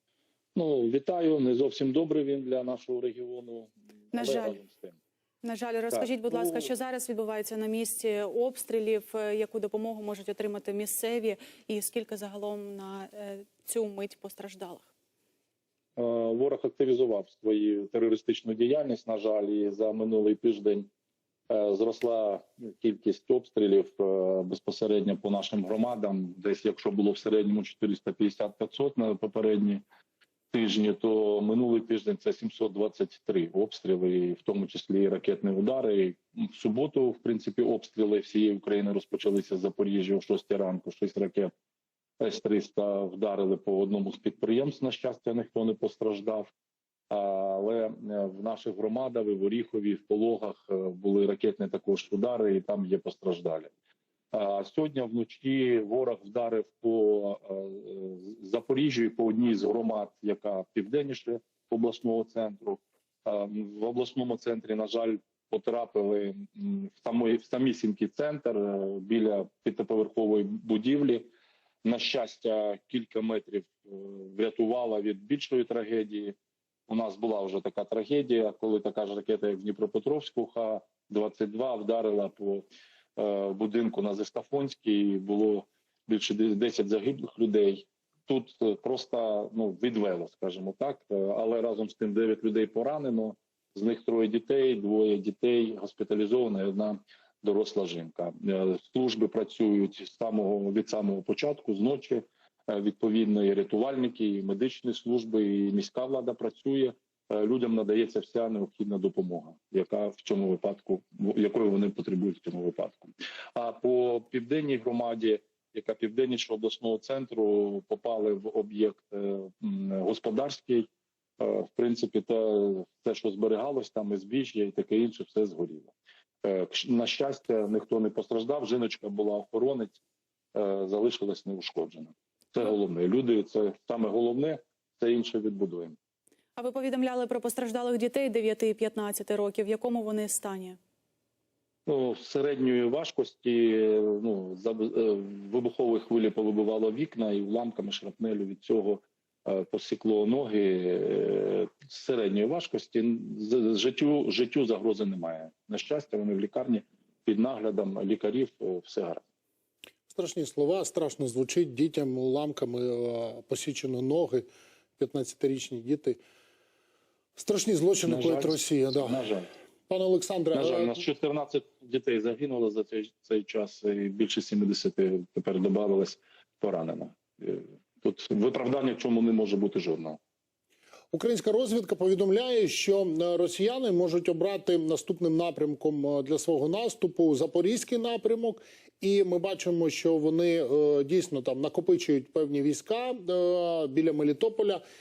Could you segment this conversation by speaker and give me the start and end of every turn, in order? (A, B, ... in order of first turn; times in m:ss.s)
0:00.6-0:05.0 A
0:04.1-0:04.6 B
0:05.4-0:14.9 B
0:05.9-0:06.7 A
0:16.0-0:20.9 A
0:21.5-0:29.8 A
0:30.5-0:41.5 A
0:42.2-0:46.5 A
0:47.1-0:53.7 A
0:54.3-1:11.3 A
1:11.8-1:16.4 A
1:16.9-2:00.9 A
2:01.4-2:05.9 A
2:06.4-2:10.0 A
2:10.5-2:16.0 A
2:16.6-2:20.8 B
2:21.9-2:39.2 A
2:40.1-2:46.2 C
2:47.4-2:49.2 C
2:48.0-2:49.5 A
2:49.9-2:51.0 C
2:50.5-3:00.2 A
3:01.1-3:14.8 C